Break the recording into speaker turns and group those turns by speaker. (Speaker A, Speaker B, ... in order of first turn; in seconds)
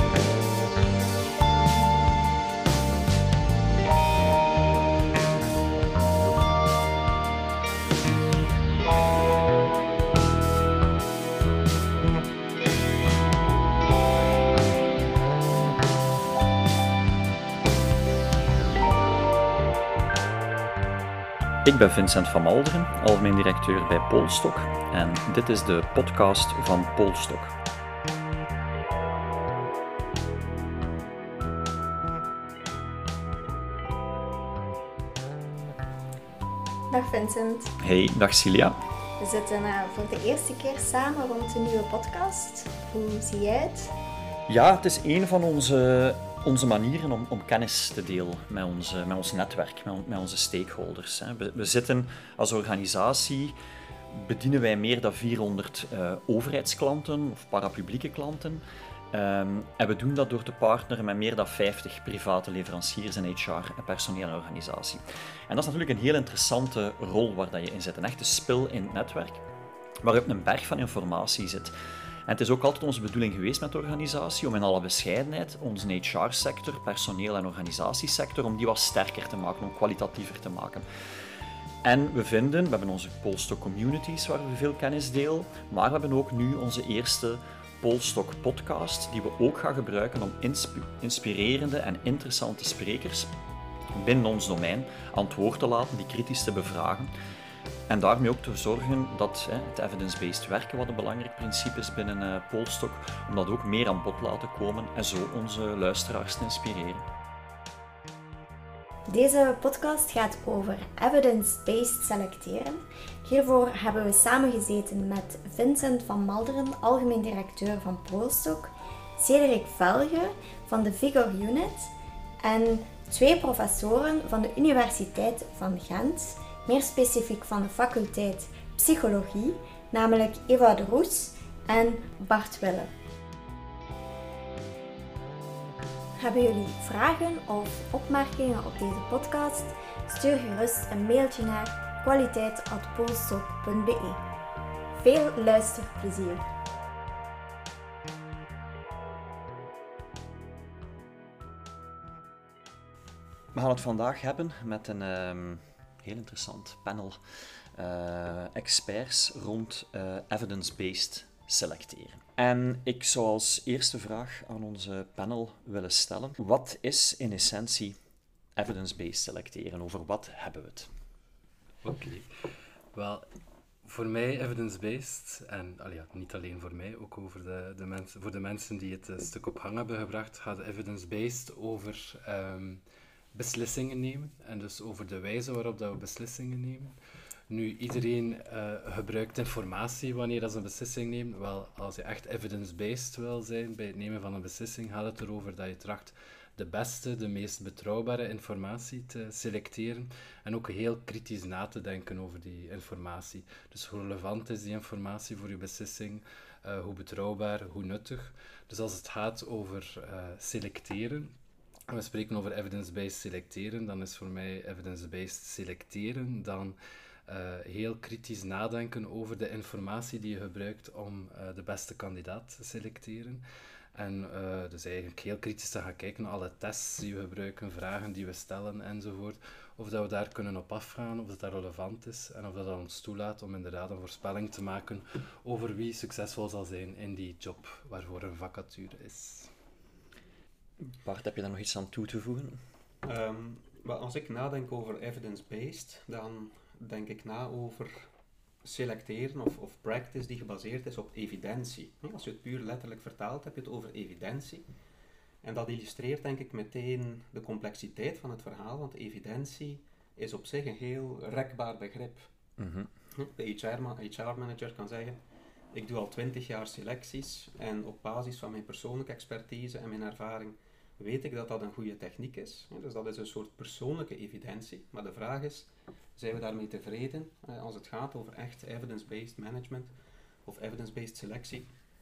Speaker A: 0.5-1.0, 36.9-37.7, 39.2-43.9, 109.1-132.9, 136.2-144.2, 144.9-146.5
Speaker B: 21.6-27.6, 37.8-38.8, 44.5-53.5, 54.1-69.5, 70.0-71.7, 72.2-80.8, 81.8-93.3, 93.9-97.1, 97.9-107.1, 153.5-168.0, 168.6-170.9, 240.8-242.6, 262.6-262.9
Speaker C: 171.8-172.3, 172.9-173.2, 173.8-182.8, 183.3-186.9, 187.5-211.3, 211.9-239.5
Speaker D: 243.0-248.1, 248.6-254.7, 255.4-262.3, 263.1-265.2, 265.7-279.9, 280.4-281.7